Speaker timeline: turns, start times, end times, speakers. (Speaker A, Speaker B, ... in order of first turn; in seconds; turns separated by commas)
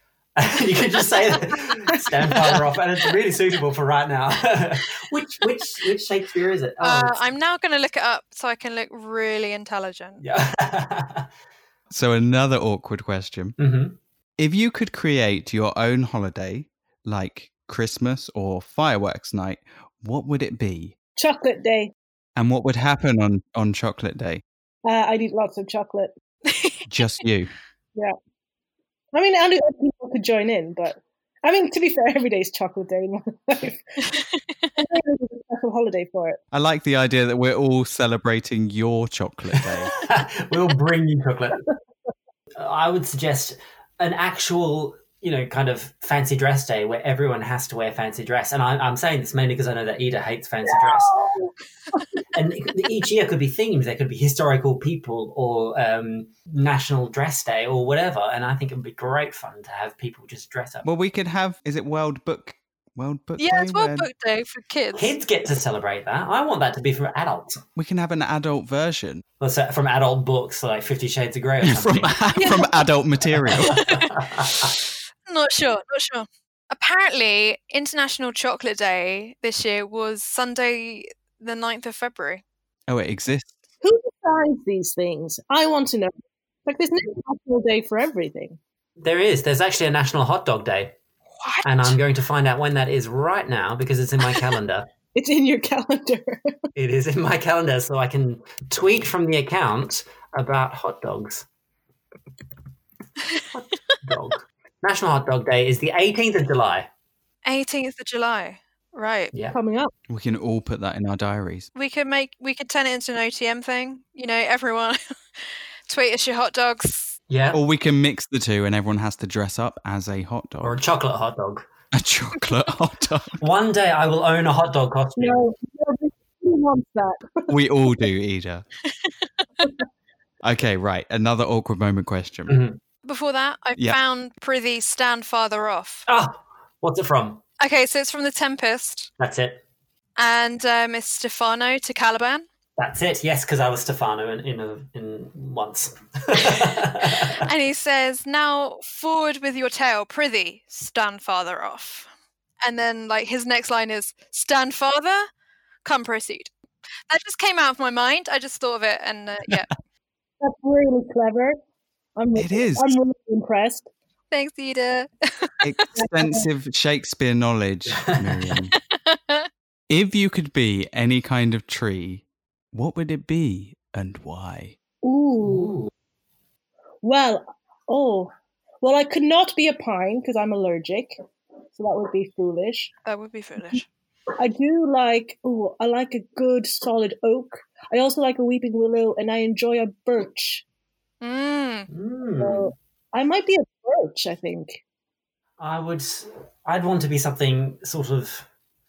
Speaker A: 0.4-7.2, Speaker B: 6.8-10.2, Speaker A: 10.2-11.3, Speaker C: 11.9-13.6, Speaker A: 13.6-14.0, Speaker C: 14.4-20.9, Speaker D: 21.1-21.9, Speaker C: 22.4-24.4, Speaker D: 24.8-26.1, Speaker B: 26.5-26.8, Speaker C: 26.9-27.5, Speaker D: 29.1-34.0, Speaker B: 34.1-34.8, Speaker D: 34.8-36.4, Speaker C: 36.5-39.9, Speaker A: 39.5-41.7, Speaker A: 42.6-51.1, Speaker D: 50.6-52.2, Speaker A: 52.3-60.8, Speaker C: 60.8-64.1, Speaker B: 63.4-65.1, Speaker A: 65.0-67.6, Speaker C: 67.8-69.2, Speaker A: 69.4-72.2, Speaker C: 71.6-73.8, Speaker B: 72.3-72.8, Speaker A: 73.4-74.8, Speaker B: 73.6-74.8, Speaker B: 75.3-82.4, Speaker C: 82.9-83.5, Speaker D: 83.8-86.1, Speaker D: 86.7-88.6, Speaker A: 89.0-91.0, Speaker B: 91.4-92.0, Speaker A: 91.6-94.9, Speaker D: 95.1-96.6, Speaker A: 96.8-101.5, Speaker A: 103.5-106.9, Speaker B: 107.5-109.3, Speaker A: 109.3-109.6, Speaker D: 109.5-109.9, Speaker C: 110.1-111.7, Speaker B: 111.8-117.2, Speaker A: 117.3-117.6, Speaker C: 117.5-120.8, Speaker A: 120.6-121.7, Speaker C: 121.9-123.4, Speaker A: 123.4-125.4, Speaker D: 125.2-127.6, Speaker C: 127.5-128.7, Speaker C: 130.4-132.6, Speaker A: 132.5-132.8, Speaker B: 133.0-136.0, Speaker A: 136.1-137.4, Speaker B: 137.6-139.1, Speaker A: 139.2-139.6, Speaker B: 140.2-142.4, Speaker A: 142.8-147.5, Speaker B: 147.3-152.1, Speaker B: 152.6-155.3, Speaker B: 155.8-156.5, Speaker B: 157.1-159.7, Speaker D: 160.4-161.6, Speaker D: 162.2-163.9, Speaker C: 162.3-162.9, Speaker B: 164.3-165.8, Speaker C: 165.6-168.7, Speaker D: 166.0-166.5, Speaker A: 167.9-168.4, Speaker B: 168.9-169.5, Speaker C: 169.9-174.8, Speaker D: 175.0-175.7, Speaker A: 175.4-175.9, Speaker D: 177.0-178.3, Speaker D: 178.8-181.2, Speaker D: 181.8-182.9, Speaker B: 183.0-183.9, Speaker D: 184.4-190.6, Speaker B: 191.2-191.9, Speaker A: 191.9-192.7, Speaker D: 192.4-194.8, Speaker A: 195.6-198.5